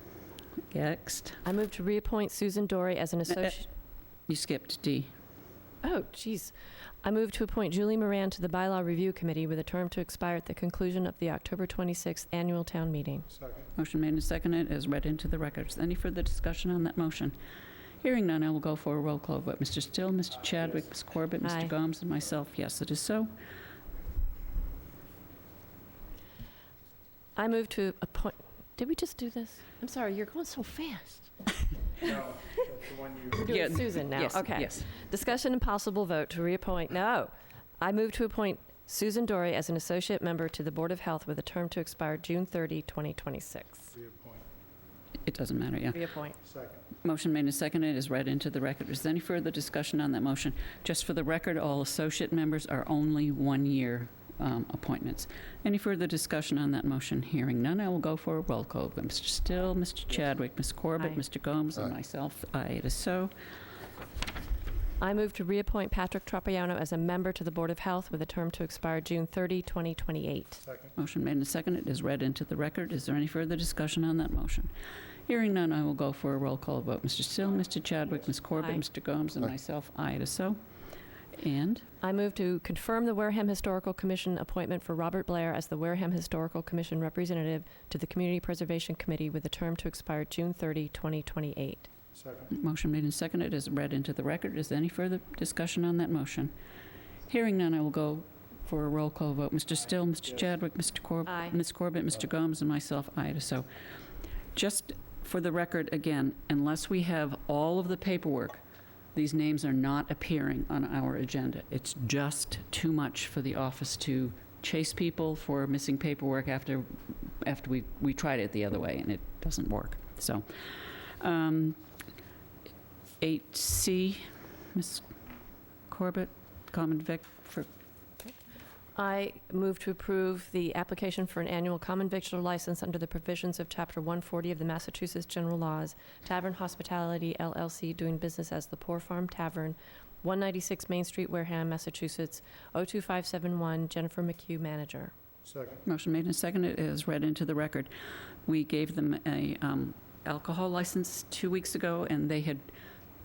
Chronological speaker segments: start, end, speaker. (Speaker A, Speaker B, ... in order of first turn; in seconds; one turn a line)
Speaker A: 0.7-1.4
Speaker B: 1.4-3.6
Speaker A: 4.3-5.1
Speaker B: 5.8-13.3
Speaker C: 13.3-13.7
Speaker A: 13.8-17.4
Speaker A: 18.0-23.3
Speaker B: 21.4-21.7
Speaker B: 27.4-31.3
Speaker C: 32.0-33.5
Speaker B: 33.4-43.9
Speaker A: 33.5-34.9
Speaker C: 43.9-44.5
Speaker A: 45.2-46.0
Speaker B: 45.9-46.4
Speaker C: 46.4-46.8
Speaker A: 47.0-63.3
Speaker B: 65.0-70.6
Speaker C: 70.6-70.9
Speaker A: 71.0-74.7
Speaker A: 75.3-80.6
Speaker B: 78.5-78.8
Speaker A: 81.3-81.8
Speaker B: 82.0-91.9
Speaker C: 92.1-92.5
Speaker A: 92.5-96.5
Speaker A: 97.3-103.7
Speaker C: 99.8-100.6
Speaker B: 101.2-101.6
Speaker A: 104.5-108.6
Speaker A: 109.1-120.5
Speaker A: 121.1-121.8
Speaker A: 123.2-125.0
Speaker A: 125.9-127.7
Speaker B: 128.9-145.1
Speaker C: 145.4-145.8
Speaker A: 145.8-147.9
Speaker A: 148.4-152.7